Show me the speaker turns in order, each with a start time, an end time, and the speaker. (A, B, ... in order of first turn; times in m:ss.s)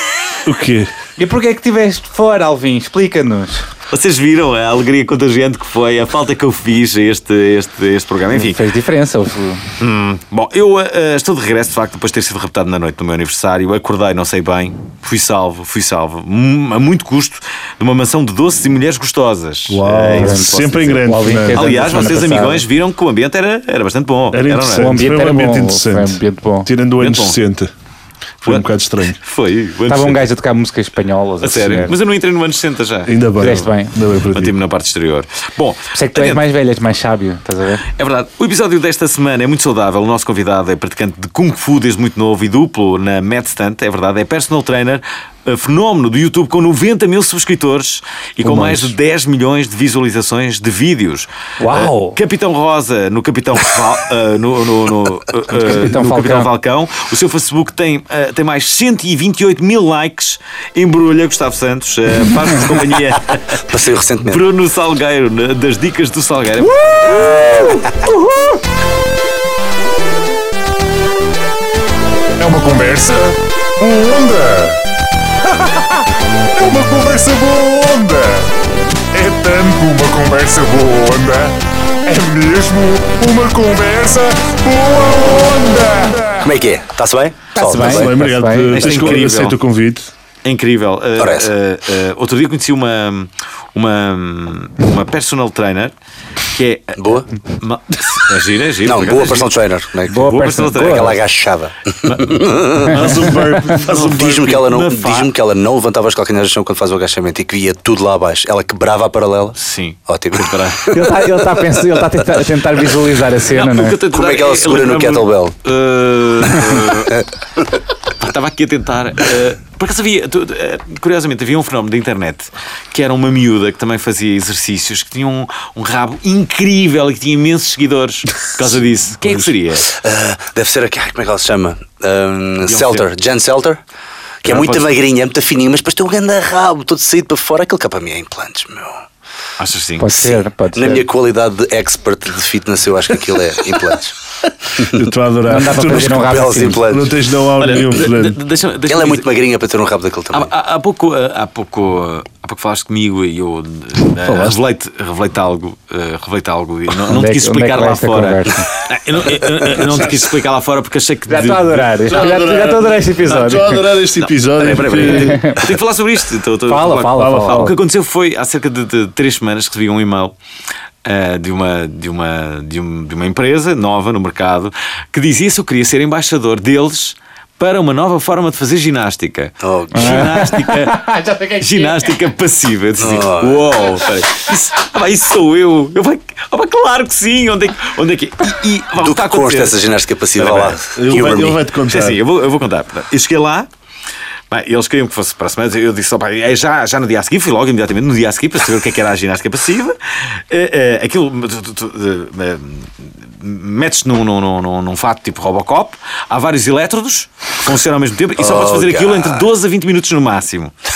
0:00.4-0:00.9 A
0:01.2-0:03.7 B
0:03.9-0:08.6 C
0:08.3-0:09.6 B
0:09.8-0:25.0 C
0:19.7-0:21.9 A
0:20.2-0:22.6 B
0:24.3-0:27.7 A
0:24.8-0:26.7 B
0:27.0-0:27.4 C
0:28.4-0:29.2 A
0:28.4-0:30.3 C
0:29.9-0:32.0 B
0:31.4-0:33.7 C
0:33.1-0:34.6 A
0:33.4-0:33.9 B
0:34.3-0:36.4 C
0:35.9-0:37.8 B
0:38.0-1:03.6 C
0:48.4-0:49.0 A
0:51.6-0:52.2 B
0:55.5-0:56.5 B
1:03.6-1:04.4 D
1:04.2-1:07.2 C
1:06.8-1:08.5 B
1:12.4-1:14.8 E
1:15.5-1:16.0 E
1:16.6-1:18.5 E
1:19.1-1:26.5 E
1:26.4-1:28.1 D
1:27.6-1:29.0 B
1:27.8-1:30.1 A
1:28.7-1:29.6 C
1:30.4-1:35.9 C
1:31.2-1:31.5 D
1:36.5-1:39.5 C
1:37.0-1:37.3 D
1:38.8-1:43.0 D
1:40.1-1:41.1 B
1:40.2-1:41.2 C
1:42.0-1:45.3 C
1:43.0-1:44.7 A
1:43.9-1:51.2 D
1:49.6-1:50.9 C
1:50.9-1:54.0 B
1:53.6-1:57.2 C
1:54.1-1:55.6 D
1:56.6-1:57.2 D
1:58.2-2:09.9 C
2:09.8-2:13.8 D
2:12.6-2:13.0 C
2:14.4-2:19.0 D
2:14.4-2:14.9 C
2:19.6-2:20.2 C
2:20.0-2:21.0 B
2:20.2-2:24.2 D
2:24.8-2:28.4 A
2:25.5-2:26.9 B
2:25.8-2:27.2 D
2:27.6-2:29.3 C
2:28.9-2:30.5 D
2:30.3-2:42.4 C
2:34.2-2:34.6 A
2:37.1-2:38.7 B
2:41.3-2:43.9 B
2:41.8-2:45.4 A
2:43.5-2:50.4 C
2:45.0-2:45.7 B
2:46.7-2:47.8 B
2:47.1-2:47.7 A
2:51.0-3:01.0 C
2:59.6-3:00.5 D
2:59.9-3:02.1 B
3:01.6-3:09.8 C
3:03.0-3:03.7 D
3:09.0-3:11.6 D
3:10.4-3:11.4 C
3:11.0-3:12.2 A
3:11.9-3:13.7 C
3:14.5-3:30.8 C
3:28.4-3:29.4 D